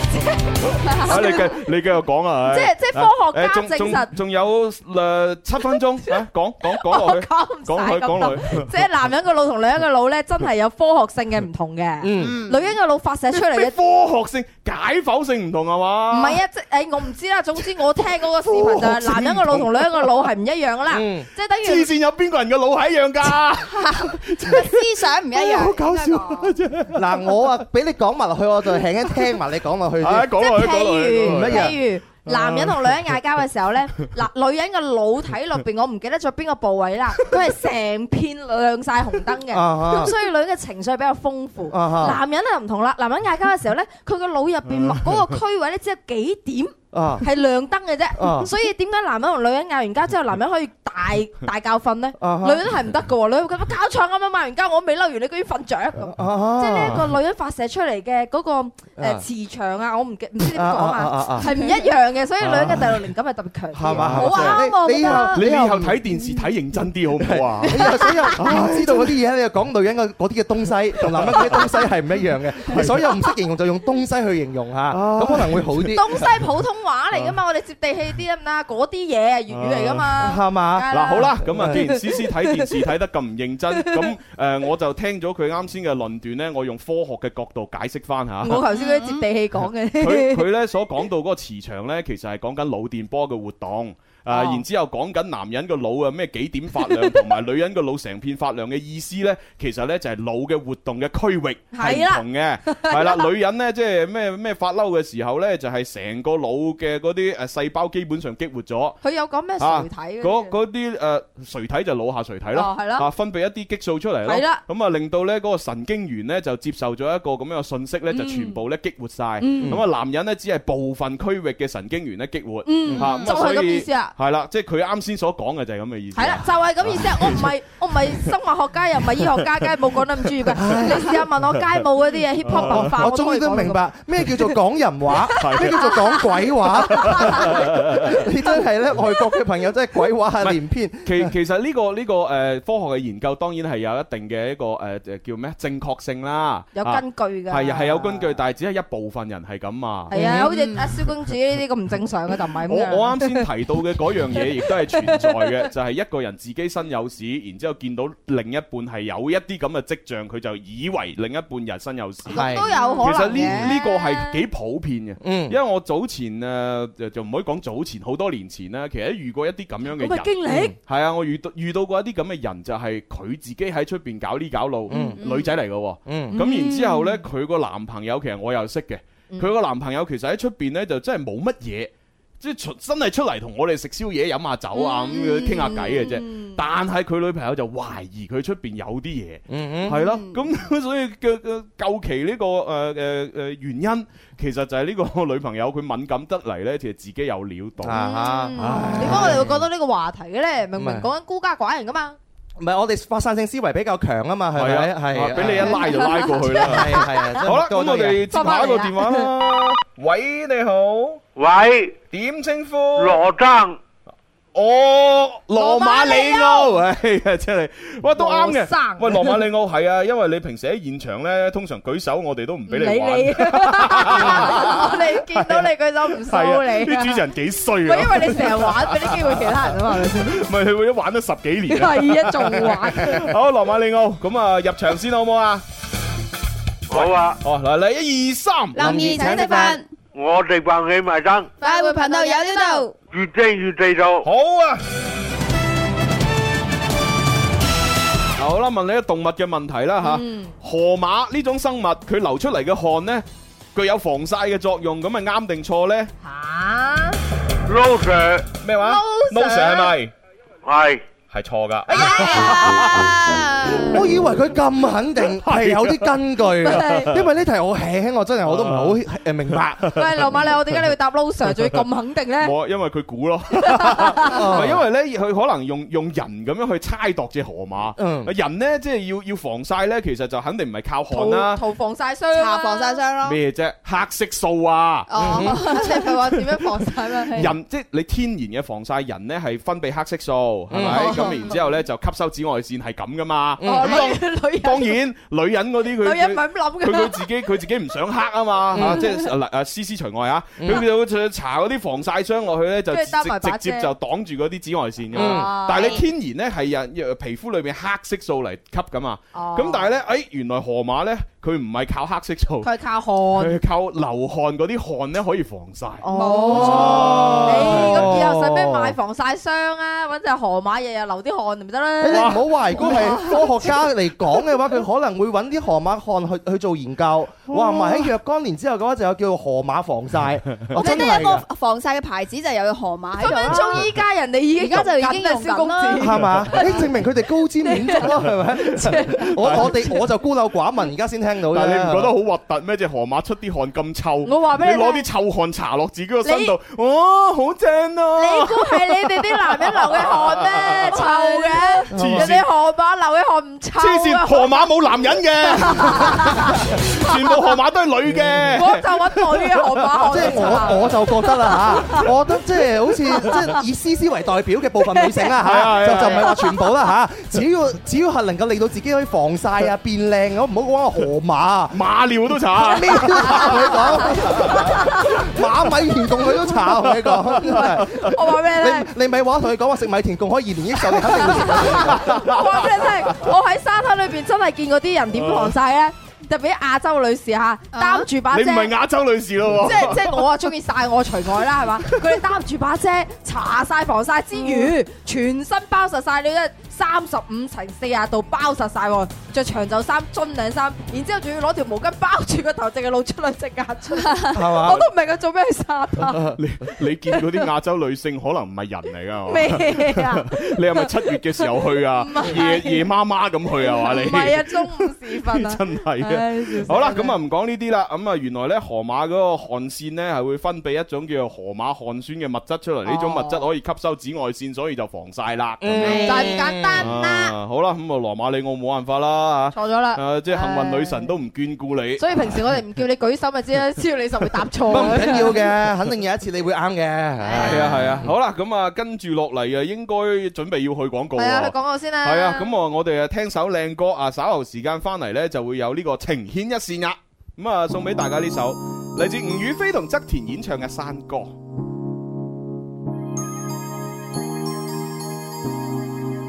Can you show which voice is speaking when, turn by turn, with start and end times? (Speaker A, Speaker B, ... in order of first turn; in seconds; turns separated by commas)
Speaker A: 0.8-1.6, Speaker B: 1.0-8.7, Speaker A: 2.5-4.1, Speaker A: 6.6-13.7, Speaker C: 12.0-12.4, Speaker D: 12.3-12.5, Speaker B: 13.3-16.4, Speaker A: 16.1-21.9, Speaker B: 18.4-20.1, Speaker C: 20.9-21.3, Speaker B: 21.6-27.5, Speaker A: 23.6-24.1, Speaker D: 24.4-25.8, Speaker A: 25.8-26.5, Speaker C: 26.9-30.3, Speaker B: 30.0-33.0, Speaker A: 30.4-65.4, Speaker C: 31.2-31.8, Speaker C: 39.5-40.1, Speaker C: 41.7-42.2, Speaker C: 46.9-47.2, Speaker C: 48.1-48.5, Speaker C: 52.2-52.6, Speaker C: 56.1-57.0, Speaker C: 59.0-59.2, Speaker C: 60.5-61.5, Speaker B: 62.4-62.9, Speaker C: 63.7-66.1, Speaker B: 64.0-69.1, Speaker C: 67.2-76.3, Speaker A: 67.7-68.4, Speaker B: 71.0-71.6, Speaker B: 72.6-73.0, Speaker B: 74.9-75.9, Speaker A: 75.9-82.6, Speaker B: 79.5-80.1, Speaker C: 80.2-81.8, Speaker B: 80.9-88.6, Speaker A: 88.4-90.4, Speaker D: 88.7-89.2, Speaker B: 90.0-109.0, Speaker A: 94.3-94.6, Speaker A: 101.7-103.2, Speaker A: 109.0-110.5, Speaker B: 109.6-127.5, Speaker A: 112.5-113.1, Speaker A: 114.2-114.6, Speaker A: 118.1-118.6, Speaker A: 119.4-119.8, Speaker A: 122.7-124.1, Speaker A: 126.1-134.5, Speaker C: 130.6-131.2, Speaker B: 132.4-132.9, Speaker C: 132.5-141.3, Speaker A: 135.3-137.7, Speaker B: 135.4-135.9, Speaker B: 136.8-138.2, Speaker B: 140.4-150.4, Speaker A: 146.7-148.3, Speaker A: 150.1-153.4, Speaker C: 150.1-150.5, Speaker B: 152.7-198.0, Speaker A: 155.1-155.4, Speaker A: 162.2-164.4, Speaker C: 162.3-162.7, Speaker C: 165.2-165.6, Speaker A: 169.9-170.7, Speaker C: 170.5-170.8, Speaker C: 174.9-175.2, Speaker A: 174.9-175.5, Speaker C: 176.1-176.3, Speaker A: 176.3-177.2, Speaker A: 184.7-186.6, Speaker C: 189.5-190.0, Speaker C: 197.8-199.6, Speaker A: 197.9-202.2, Speaker B: 198.6-199.4, Speaker C: 200.8-201.1, Speaker C: 202.6-208.2, Speaker B: 204.5-211.2, Speaker A: 205.6-207.4, Speaker A: 208.3-209.3, Speaker E: 211.3-212.0, Speaker B: 212.1-213.2, Speaker E: 212.9-213.8, Speaker B: 214.5-235.6, Speaker A: 215.6-216.8, Speaker A: 218.2-219.4, Speaker A: 222.7-227.2, Speaker A: 227.8-230.4, Speaker A: 231.7-233.3, Speaker E: 236.9-237.4, Speaker B: 236.9-238.8, Speaker D: 238.7-239.9, Speaker C: 238.8-239.8, Speaker A: 238.8-239.8, Speaker E: 240.1-241.5, Speaker A: 241.6-242.9, Speaker D: 241.6-243.0, Speaker E: 243.1-244.2, Speaker B: 244.2-244.8, Speaker B: 248.4-256.1, Speaker A: 250.0-250.5, Speaker A: 256.2-257.2, Speaker E: 257.7-258.5, Speaker B: 258.6-260.1, Speaker A: 258.8-259.9, Speaker E: 260.6-261.0, Speaker B: 261.3-263.1, Speaker C: 261.9-262.8, Speaker D: 261.9-264.0, Speaker A: 262.3-262.5, Speaker C: 263.8-270.0, Speaker B: 265.3-266.2, Speaker A: 266.6-267.1, Speaker B: 266.7-267.2, Speaker B: 268.4-269.0, Speaker B: 269.5-270.6, Speaker A: 269.9-272.5, Speaker B: 272.4-281.6, Speaker A: 273.6-274.3, Speaker C: 274.2-274.8, Speaker C: 278.0-278.3, Speaker A: 281.1-283.0, Speaker D: 282.3-283.4, Speaker B: 283.2-285.1, Speaker D: 285.1-285.9, Speaker A: 285.1-287.5, Speaker C: 285.2-285.6, Speaker B: 287.3-312.7, Speaker C: 290.7-291.3, Speaker A: 290.9-291.6, Speaker C: 293.6-294.1, Speaker A: 293.6-295.0, Speaker A: 296.0-297.3, Speaker C: 298.7-299.1, Speaker A: 298.8-299.3, Speaker C: 300.6-300.9, Speaker A: 302.9-303.9, Speaker C: 305.1-305.6, Speaker A: 305.1-306.0, Speaker D: 305.7-306.0, Speaker A: 309.3-309.9, Speaker A: 312.6-313.6, Speaker B: 313.3-318.2, Speaker C: 316.0-318.9, Speaker A: 316.1-323.7, Speaker C: 322.0-331.4, Speaker B: 322.1-323.4, Speaker B: 327.5-328.0, Speaker D: 330.7-334.0, Speaker A: 333.2-336.8, Speaker D: 334.6-336.8, Speaker C: 336.0-342.1, Speaker A: 337.6-340.0, Speaker B: 339.2-339.8, Speaker B: 341.5-351.1, Speaker A: 344.2-345.1, Speaker A: 346.2-346.5, Speaker A: 348.1-357.1, Speaker C: 351.9-352.3, Speaker B: 351.9-352.5, Speaker B: 353.8-360.8, Speaker A: 358.5-362.0, Speaker C: 360.1-371.8, Speaker B: 363.3-363.6, Speaker A: 364.9-365.3, Speaker B: 365.4-366.4, Speaker A: 366.0-366.6, Speaker B: 371.7-375.4, Speaker C: 372.6-382.1, Speaker A: 374.5-374.8, Speaker B: 376.2-378.1, Speaker A: 377.5-378.9, Speaker B: 381.1-383.1, Speaker A: 381.1-388.7, Speaker B: 385.1-385.5, Speaker D: 387.7-388.1, Speaker B: 388.3-390.2, Speaker A: 389.6-406.2, Speaker B: 391.8-392.1, Speaker C: 404.3-404.9, Speaker C: 406.1-406.4, Speaker B: 406.4-432.4, Speaker A: 407.1-407.4, Speaker A: 409.3-410.9, Speaker A: 412.0-412.9, Speaker A: 413.6-417.1, Speaker A: 422.8-423.4, Speaker C: 425.6-426.9, Speaker A: 425.8-427.3, Speaker A: 429.5-431.1, Speaker A: 432.0-435.4, Speaker C: 434.7-438.1, Speaker A: 437.2-437.8, Speaker B: 437.3-451.3, Speaker A: 441.2-442.5